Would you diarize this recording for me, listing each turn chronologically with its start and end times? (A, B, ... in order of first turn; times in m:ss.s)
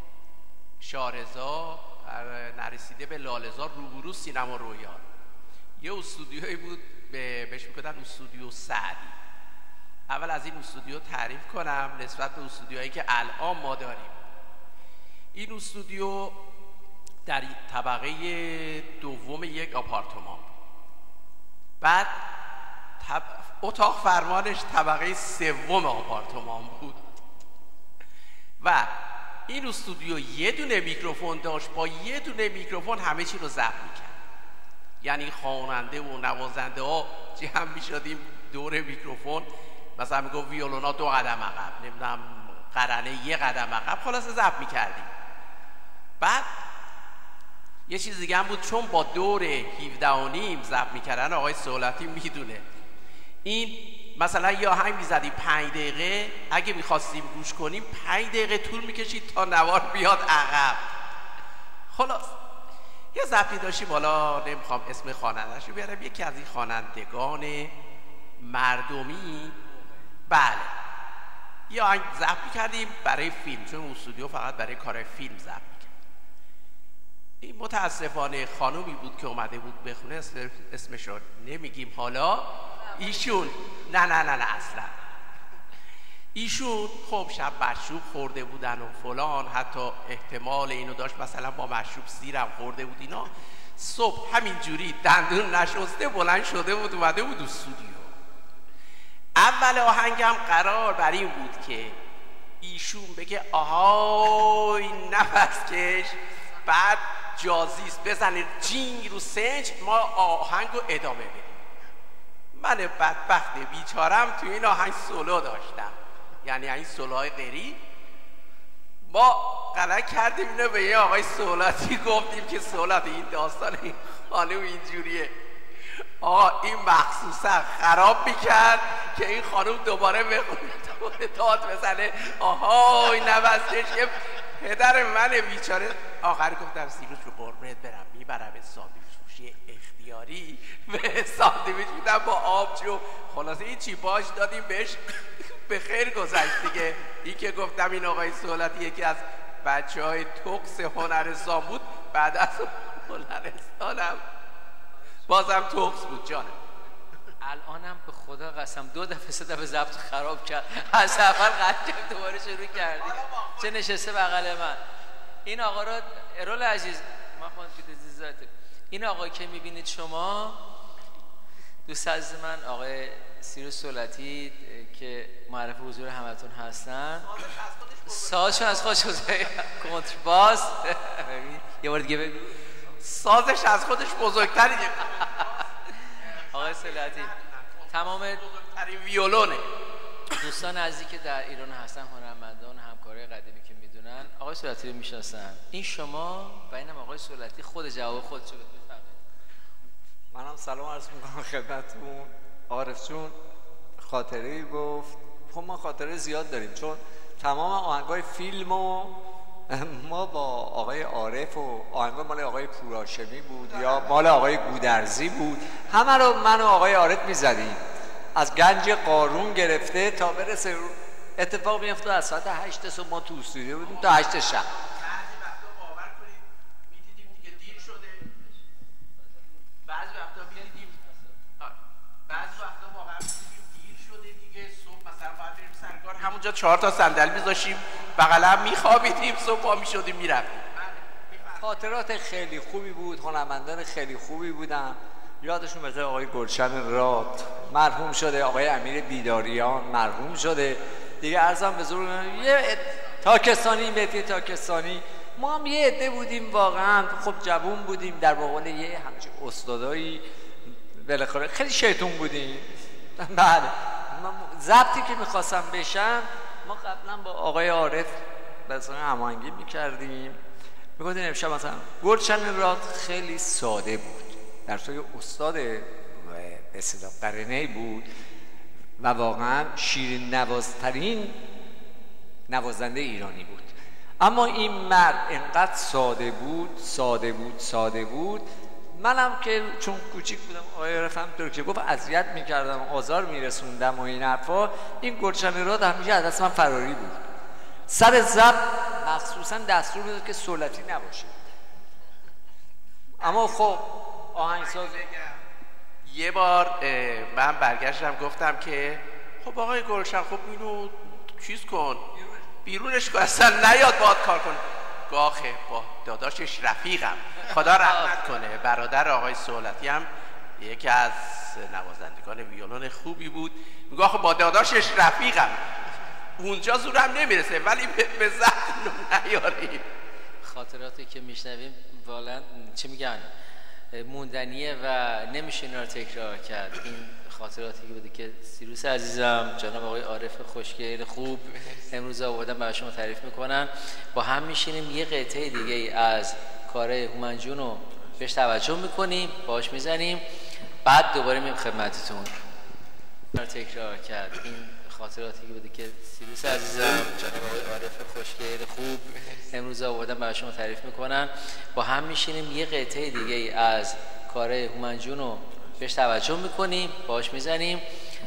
0:00.8-0:05.0 A
0:05.8-0:09.2 A
0:10.1-0:14.2 A
0:15.3-0:16.4 A
0:17.3-0:20.5 A
0:21.8-0:22.1 A
0:23.0-0:27.0 A
0:28.6-0:28.9 A
0:29.5-0:34.2 A
0:35.0-0:45.1 A
0:46.2-0:46.5 A
0:47.9-0:52.6 A
0:53.4-1:00.8 A
1:01.9-1:02.3 A
1:03.1-1:07.7 A
1:08.4-1:09.6 A
1:10.3-1:10.7 A
1:11.7-1:15.9 A
1:17.4-1:24.9 A
1:26.3-1:38.1 A
1:39.4-1:42.0 A
1:42.6-1:51.6 A
1:52.5-1:57.8 A
1:59.1-2:05.3 A
2:05.9-2:34.2 A
2:35.3-2:36.6 A
2:37.4-2:44.8 B
2:43.0-2:43.7 A
2:45.4-2:50.6 B
2:51.9-2:57.3 B
2:57.2-2:59.1 A
2:58.1-3:02.5 B
3:03.0-3:05.7 A
3:06.2-3:09.6 A
3:06.5-3:07.3 B
3:07.9-3:08.4 B
3:10.4-3:19.2 B
3:20.3-3:23.4 C
3:24.0-3:37.8 C
3:38.4-3:44.7 C
3:43.8-3:48.2 A
3:49.8-3:51.0 A
3:51.6-4:01.8 A
4:01.6-4:20.2 C
4:21.0-4:30.4 C
4:31.0-4:38.1 C
4:39.0-4:41.4 C
4:42.5-4:57.2 C
4:57.9-5:01.3 C
5:03.2-5:05.0 C
5:03.2-5:03.8 A
5:04.4-5:05.4 A
5:06.0-5:12.1 A
5:12.6-5:25.6 A
5:17.5-5:18.2 B
5:26.4-5:29.8 A
5:30.4-5:33.3 B
5:33.9-5:50.2 B
5:50.8-5:52.3 B
5:53.3-6:07.8 B